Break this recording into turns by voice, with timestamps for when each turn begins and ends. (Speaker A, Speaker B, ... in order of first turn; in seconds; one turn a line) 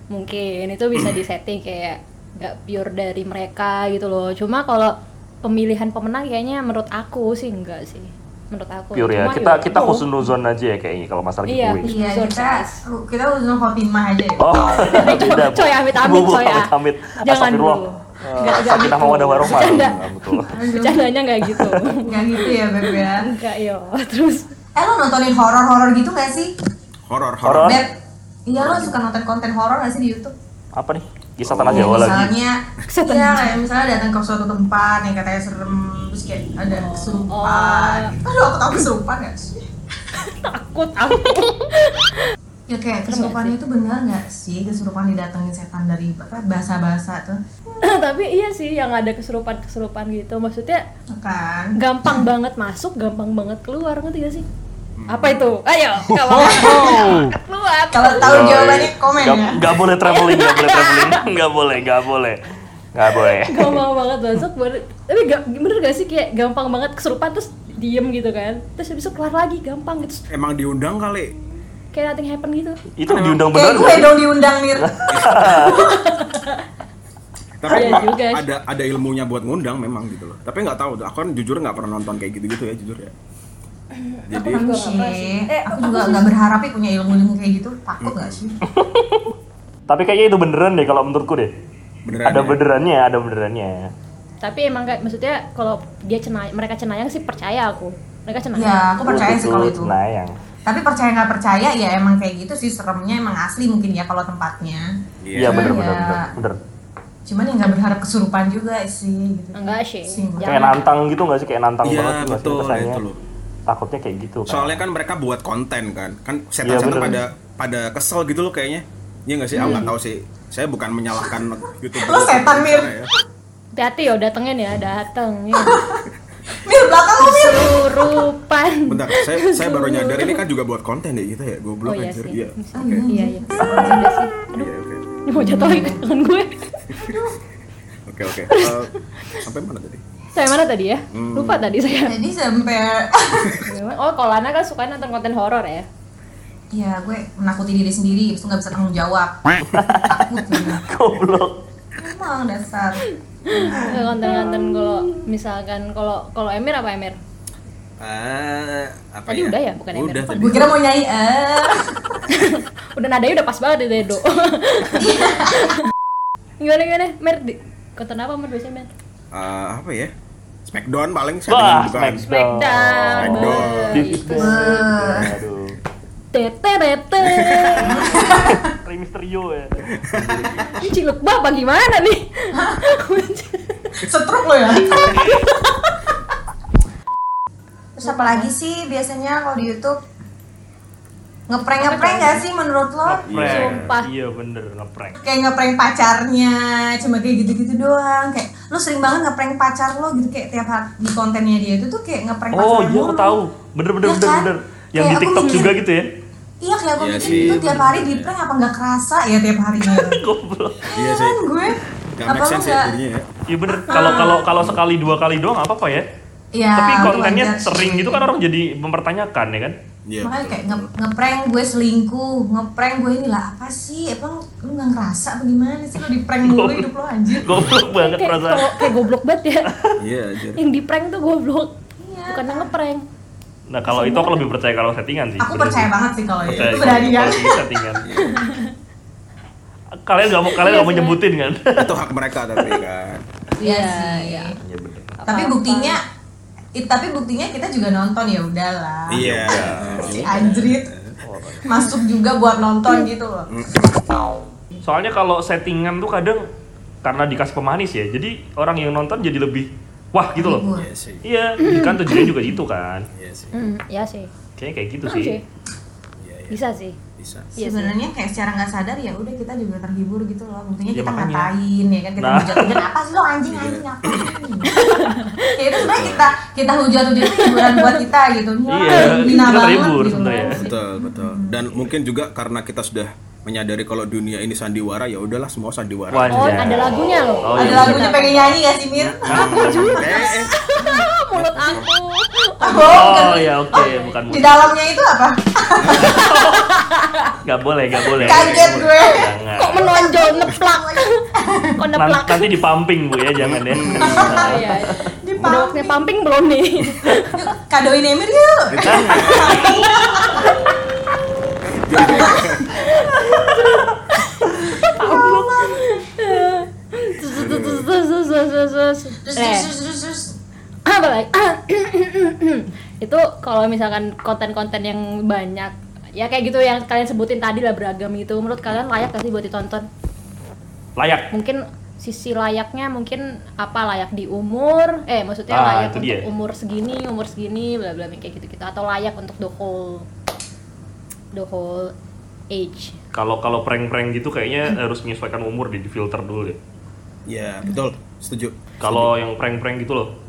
Speaker A: 0.1-10.1
Speaker B: 8.9-11.9
Speaker A: 11.5-12.8
Speaker C: 11.8-14.5
Speaker B: 14.4-20.5
Speaker A: 14.8-24.5
Speaker C: 20.5-21.1
Speaker B: 21.5-21.8
Speaker C: 22.0-23.3
Speaker C: 24.8-26.5
Speaker D: 27.1-27.8
Speaker B: 27.4-27.8
Speaker C: 27.6-27.9
Speaker C: 28.5-30.3
Speaker D: 28.6-28.9
Speaker B: 30.8-32.3
Speaker D: 31.5-32.3
Speaker C: 31.7-39.7
Speaker A: 32.9-33.6
Speaker A: 36.7-38.1
Speaker A: 40.2-42.3
Speaker C: 42.7-47.4
Speaker A: 43.1-43.5
Speaker A: 47.8-50.8
Speaker C: 51.1-51.8
Speaker A: 51.8-54.5
Speaker D: 55.0-55.5
Speaker A: 55.1-58.3
Speaker D: 56.1-56.5
Speaker C: 56.3-57.0
Speaker B: 56.6-57.2
Speaker C: 57.9-59.7
Speaker B: 58.2-62.4
Speaker A: 60.0-61.3
Speaker B: 63.0-63.8
Speaker A: 63.2-70.2
Speaker D: 70.3-71.4
Speaker A: 71.9-72.8
Speaker B: 73.0-74.2
Speaker C: 73.4-76.1
Speaker B: 74.8-75.8
Speaker D: 75.1-75.8
Speaker A: 75.6-76.6
Speaker D: 77.6-83.1
Speaker A: 77.7-78.5
Speaker A: 83.9-86.3
Speaker D: 84.3-84.6
Speaker C: 84.3-88.6
Speaker D: 88.0-88.4
Speaker B: 88.7-89.3
Speaker B: 89.9-91.5
Speaker D: 92.0-92.6
Speaker B: 92.2-93.9
Speaker A: 94.4-99.0
Speaker C: 98.5-100.0
Speaker B: 99.0-100.3
Speaker C: 100.7-106.3
Speaker D: 105.2-105.8
Speaker B: 105.3-106.6
Speaker C: 107.2-110.5
Speaker A: 109.5-110.8
Speaker B: 110.4-113.0
Speaker D: 111.8-113.2
Speaker B: 113.7-114.8
Speaker D: 114.5-123.1
Speaker B: 116.6-117.2
Speaker C: 119.6-119.8
Speaker A: 119.6-119.9
Speaker C: 121.9-123.0
Speaker A: 123.8-125.8
Speaker C: 125.5-126.0
Speaker C: 126.5-127.8
Speaker A: 127.2-130.4
Speaker D: 128.9-133.0
Speaker A: 131.9-134.7
Speaker C: 132.7-134.0
Speaker D: 134.5-135.1
Speaker A: 135.2-137.0
Speaker C: 135.3-136.0
Speaker D: 136.9-137.2
Speaker D: 138.1-140.0
Speaker A: 138.5-139.4
Speaker A: 140.3-142.1
Speaker D: 141.1-141.7
Speaker C: 142.0-143.7
Speaker A: 143.6-145.9
Speaker C: 146.7-150.8
Speaker B: 149.7-151.5
Speaker C: 152.0-154.6
Speaker A: 153.4-157.2
Speaker D: 158.0-160.8
Speaker A: 159.3-160.7
Speaker C: 160.3-162.2
Speaker A: 162.3-165.8
Speaker C: 164.9-165.7
Speaker A: 166.6-168.9
Speaker D: 169.3-170.1
Speaker D: 170.6-172.2
Speaker B: 171.5-175.8
Speaker A: 172.2-174.9
Speaker D: 173.2-174.2
Speaker C: 174.3-175.3
Speaker A: 176.3-178.3
Speaker D: 177.2-177.9
Speaker C: 177.8-178.7
Speaker B: 178.1-180.7
Speaker D: 180.0-180.8
Speaker A: 180.7-184.0
Speaker C: 182.5-182.8
Speaker C: 184.0-185.2
Speaker A: 184.7-185.6
Speaker C: 188.0-190.0
Speaker A: 188.0-188.5
Speaker C: 191.5-193.2
Speaker A: 191.8-192.4
Speaker B: 193.1-195.2
Speaker D: 193.2-193.8
Speaker A: 193.4-194.1
Speaker C: 195.2-203.4
Speaker B: 202.5-206.1
Speaker C: 204.0-205.8
Speaker C: 206.6-210.2
Speaker D: 207.0-208.3
Speaker B: 207.2-207.8
Speaker B: 209.8-210.9
Speaker D: 210.9-211.4
Speaker C: 210.9-212.9
Speaker D: 212.1-213.3
Speaker B: 213.5-216.0
Speaker A: 213.9-214.4
Speaker C: 216.5-218.3
Speaker B: 216.8-219.8
Speaker D: 220.1-220.9
Speaker C: 220.2-227.7
Speaker B: 226.4-226.9
Speaker B: 227.4-228.9
Speaker A: 228.0-229.7
Speaker D: 230.0-230.6
Speaker A: 230.6-231.7
Speaker C: 232.0-232.7
Speaker A: 232.3-233.0
Speaker B: 233.7-235.9
Speaker A: 233.9-234.4
Speaker C: 235.4-237.7
Speaker D: 236.4-237.4
Speaker B: 236.5-238.0
Speaker D: 238.0-238.5
Speaker A: 238.2-238.7
Speaker B: 240.0-242.0
Speaker A: 240.4-241.2
Speaker D: 241.8-243.2
Speaker A: 243.6-244.6
Speaker C: 243.6-244.6
Speaker B: 244.6-245.2
Speaker A: 245.2-246.0
Speaker C: 245.3-246.0
Speaker C: 246.8-250.9
Speaker D: 249.1-251.2
Speaker B: 249.2-250.6
Speaker B: 251.2-251.7
Speaker C: 251.6-253.5
Speaker D: 253.5-254.0
Speaker B: 254.8-256.4
Speaker B: 257.0-260.7
Speaker C: 260.4-260.9
Speaker D: 260.7-261.2
Speaker B: 261.2-263.1
Speaker A: 261.6-262.3
Speaker D: 263.1-263.6
Speaker A: 263.5-264.3
Speaker B: 264.6-265.4
Speaker A: 265.1-265.4
Speaker D: 266.2-266.6
Speaker A: 266.5-267.0
Speaker D: 267.2-267.5
Speaker A: 267.6-267.9
Speaker C: 267.6-281.8
Speaker B: 270.9-271.5
Speaker B: 272.2-272.8
Speaker D: 273.5-274.3
Speaker A: 274.7-275.6
Speaker D: 275.8-276.3
Speaker A: 277.2-278.0
Speaker B: 278.7-280.6
Speaker A: 278.9-279.5
Speaker A: 280.1-280.6
Speaker D: 280.6-286.9
Speaker B: 286.1-288.1
Speaker A: 286.3-288.6
Speaker C: 287.6-290.0
Speaker D: 289.0-290.5
Speaker B: 289.3-290.1
Speaker A: 289.3-294.2
Speaker C: 290.8-291.1
Speaker D: 291.4-291.9
Speaker C: 292.6-296.3
Speaker B: 292.9-294.7
Speaker D: 295.8-296.2
Speaker B: 295.9-296.8
Speaker A: 296.2-297.3
Speaker B: 297.4-299.9
Speaker D: 298.1-298.9
Speaker C: 298.1-301.8
Speaker A: 299.6-302.5
Speaker B: 302.0-304.9
Speaker D: 303.4-304.5
Speaker C: 303.9-306.0
Speaker A: 304.0-307.4
Speaker C: 307.3-310.6
Speaker D: 308.7-309.7
Speaker B: 309.1-309.8
Speaker D: 311.7-312.9
Speaker C: 312.0-312.7
Speaker A: 312.2-319.7
Speaker B: 313.3-313.9
Speaker C: 314.8-315.9
Speaker D: 317.2-317.9
Speaker C: 319.2-320.4
Speaker A: 320.9-329.9
Speaker B: 331.0-331.3
Speaker A: 331.3-340.1
Speaker B: 335.5-336.2
Speaker A: 341.3-341.9
Speaker A: 342.5-343.0
Speaker B: 343.1-346.6
Speaker D: 347.3-349.1
Speaker B: 348.8-350.1